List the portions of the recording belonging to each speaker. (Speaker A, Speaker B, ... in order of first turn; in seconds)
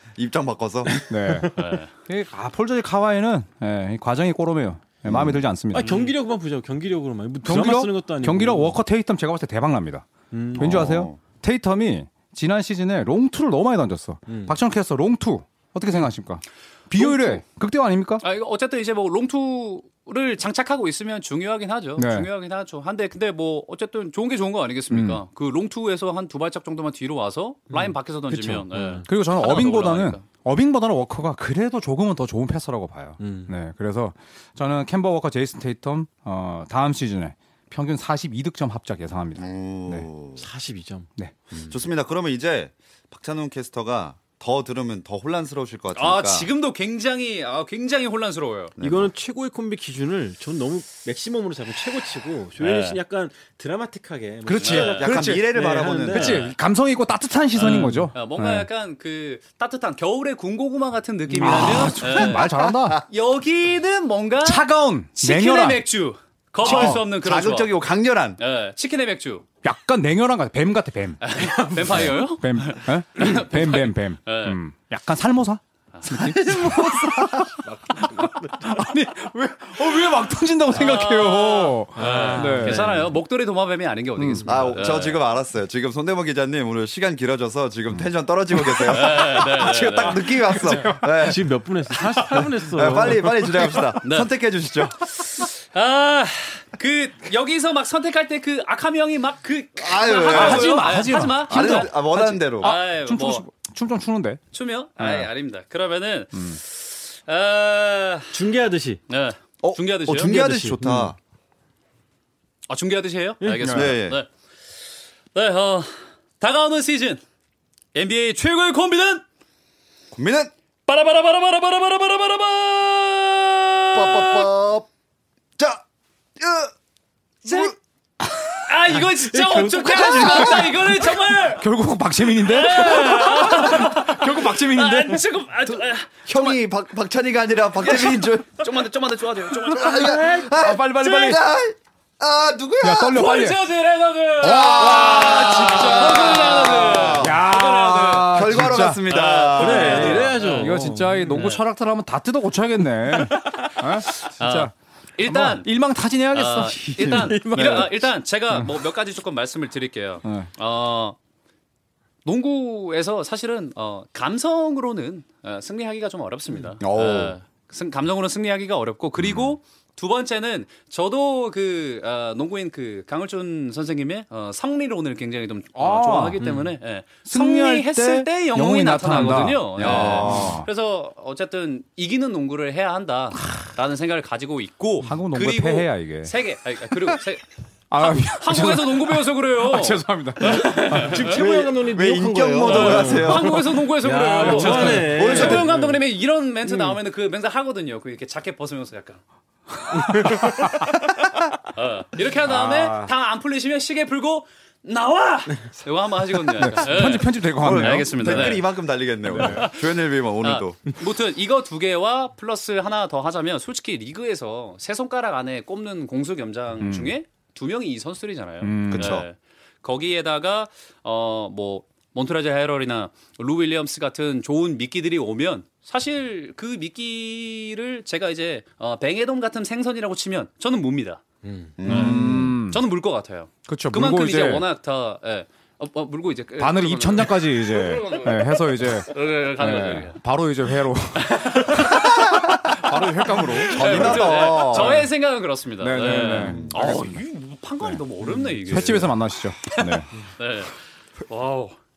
Speaker A: 0.2-1.0, 5.0-5.4, 10.6-11.2, 39.4-40.4, 41.5-46.5, 48.8-49.1, 54.9-56.4, 61.5-63.0, 66.6-68.4, 76.2-77.7, 84.5-91.5, 92.7-95.5, 99.8-102.8, 109.6-111.2, 113.7-114.2, 120.1-120.5, 123.9-124.9, 125.6-125.8, 126.4-126.7, 127.4-128.6, 130.1-130.6, 136.2-138.7, 139.5-143.3, 144.4-147.4, 148.3-150.4, 157.2-157.9, 166.8-167.4, 169.2-169.5, 179.8-180.6, 191.2-193.8, 194.6-195.7, 207.6-210.8, 218.9-219.3, 231.8-232.6, 241.9-242.8, 243.4-245.1, 246.3-246.9
Speaker B: 0.9-1.6, 5.7-8.8, 10.3-10.8, 14.3-14.6, 27.7-29.1, 33.2-33.5, 40.4-41.1, 48.8-56.5, 57.7-58.0, 61.4-61.9, 77.6-78.6, 82.0-83.1, 91.2-93.5, 108.3-109.0, 110.2-111.1, 113.4-113.7, 129.1-131.1, 149.6-151.5, 157.0-157.9, 176.4-176.7, 190.4-196.0, 196.7-197.0, 199.9-200.8, 231.4-231.8
Speaker C: 1.1-6.1, 7.4-18.2, 22.0-22.3, 24.9-25.2, 29.1-40.1, 54.5-55.5, 56.1-58.7, 61.4-63.0, 64.4-65.8, 66.7-66.9, 69.6-71.3, 71.9-77.2, 78.6-83.0, 84.2-84.7, 90.4-91.4, 92.0-92.4, 93.0-93.8, 100.3-104.4, 105.0-105.3, 106.3-106.6, 113.6-113.9, 131.6-135.8, 140.0-141.4, 142.8-143.6, 144.4-149.0, 150.0-154.7, 155.2-157.9, 160.2-160.5, 175.8-176.4, 177.2-180.7, 185.0-186.3, 187.9-191.6, 194.4-195.6, 199.9-201.0, 202.5-203.1, 206.4-208.6, 209.3-209.6, 216.8-217.1, 218.6-219.2, 231.8-232.8, 233.7-234.6, 236.6-245.0, 245.8-247.2, 248.6-250.1
Speaker D: 1.6-1.9, 17.0-17.4, 18.2-30.2, 45.9-48.8, 52.6-53.0, 54.6-55.0, 56.1-56.5, 57.5-62.5, 63.1-64.6, 65.2-67.8, 68.4-69.5, 71.2-74.6, 76.0-76.6, 80.7-85.2, 88.9-90.3, 94.0-94.3, 95.1-102.0, 102.6-103.5, 104.5-108.4, 109.1-110.4, 112.7-114.3, 115.3-117.2, 117.9-119.2, 120.9-124.5, 127.5-127.7, 128.6-131.6, 132.5-136.6, 137.8-140.5, 143.1-150.8, 151.3-151.6, 153.4-155.7, 156.3-161.2, 162.2-187.5, 188.0-191.4, 192.6-199.2, 201.7-208.7, 209.3-209.9, 210.4-231.2, 231.8-238.5, 239.1-240.2, 241.2-242.1, 243.7-251.8